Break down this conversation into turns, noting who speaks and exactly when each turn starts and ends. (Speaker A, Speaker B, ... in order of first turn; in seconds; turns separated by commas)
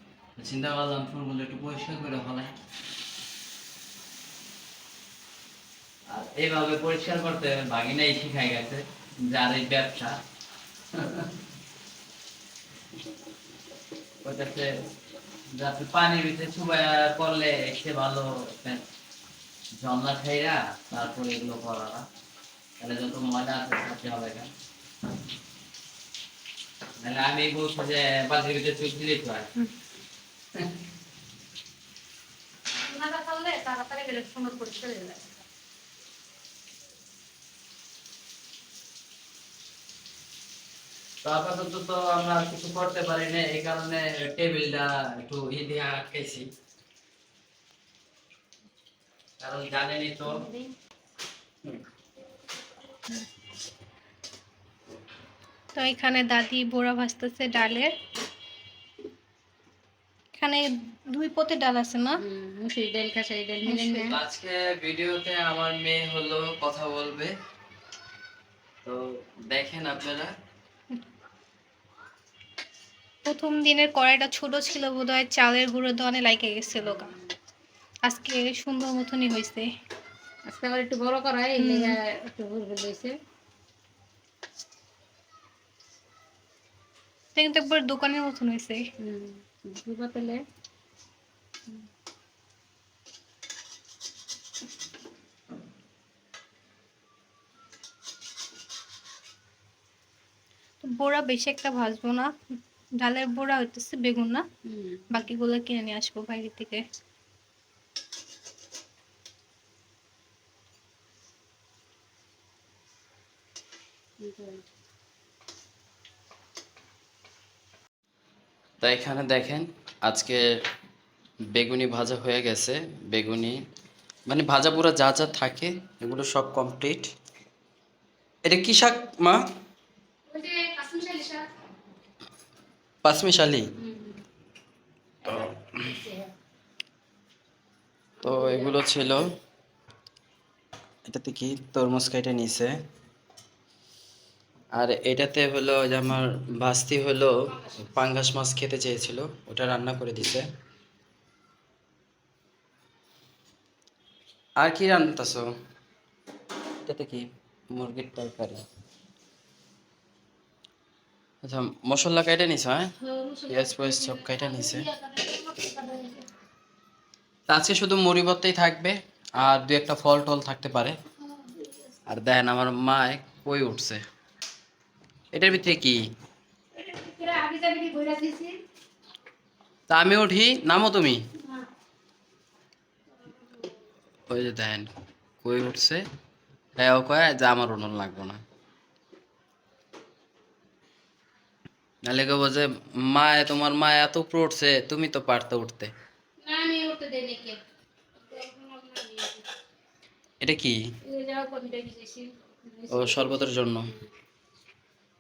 Speaker A: 0.4-2.5, Speaker A: 6.1-10.2, Speaker A: 10.9-11.3, Speaker A: 14.2-14.7, Speaker A: 15.5-18.8, Speaker A: 19.8-22.1, Speaker A: 22.8-24.5, Speaker A: 27.0-29.5, Speaker B: 32.8-35.4, Speaker A: 41.2-46.5, Speaker A: 49.4-50.4, Speaker B: 50.3-50.7, Speaker C: 55.8-57.9, Speaker C: 60.4-62.2, Speaker B: 62.2-64.1, Speaker C: 63.6-64.1, Speaker A: 64.0-67.3, Speaker A: 68.8-70.3, Speaker C: 73.2-77.1, Speaker B: 76.7-77.2, Speaker C: 78.0-79.7, Speaker B: 80.5-83.1, Speaker C: 81.6-81.9, Speaker C: 87.3-88.9, Speaker B: 89.0-90.4, Speaker C: 100.8-102.3, Speaker C: 103.0-104.4, Speaker B: 104.6-105.2, Speaker C: 105.1-106.8, Speaker B: 114.2-114.6, Speaker A: 118.8-120.4, Speaker A: 121.5-123.6, Speaker A: 124.3-127.1, Speaker A: 128.4-129.4, Speaker B: 130.3-131.5, Speaker A: 133.0-133.7, Speaker B: 133.8-134.2, Speaker B: 135.2-136.3, Speaker A: 135.2-135.9, Speaker B: 138.2-139.2, Speaker A: 138.2-139.3, Speaker A: 141.1-142.7, Speaker A: 144.8-150.5, Speaker B: 147.5-147.9, Speaker A: 154.6-155.5, Speaker A: 156.8-158.6, Speaker A: 161.4-162.9, Speaker B: 163.0-166.3, Speaker A: 163.5-164.9, Speaker A: 167.5-171.0, Speaker B: 171.3-171.9, Speaker A: 172.1-174.0, Speaker A: 175.3-176.0, Speaker B: 176.8-178.6, Speaker A: 179.9-181.2, Speaker B: 183.2-183.8, Speaker A: 184.3-184.9, Speaker A: 185.4-186.0, Speaker A: 186.8-188.4, Speaker A: 192.0-195.9, Speaker B: 196.4-197.6, Speaker B: 198.2-199.5, Speaker A: 200.4-200.8, Speaker B: 201.0-204.1, Speaker A: 202.9-203.9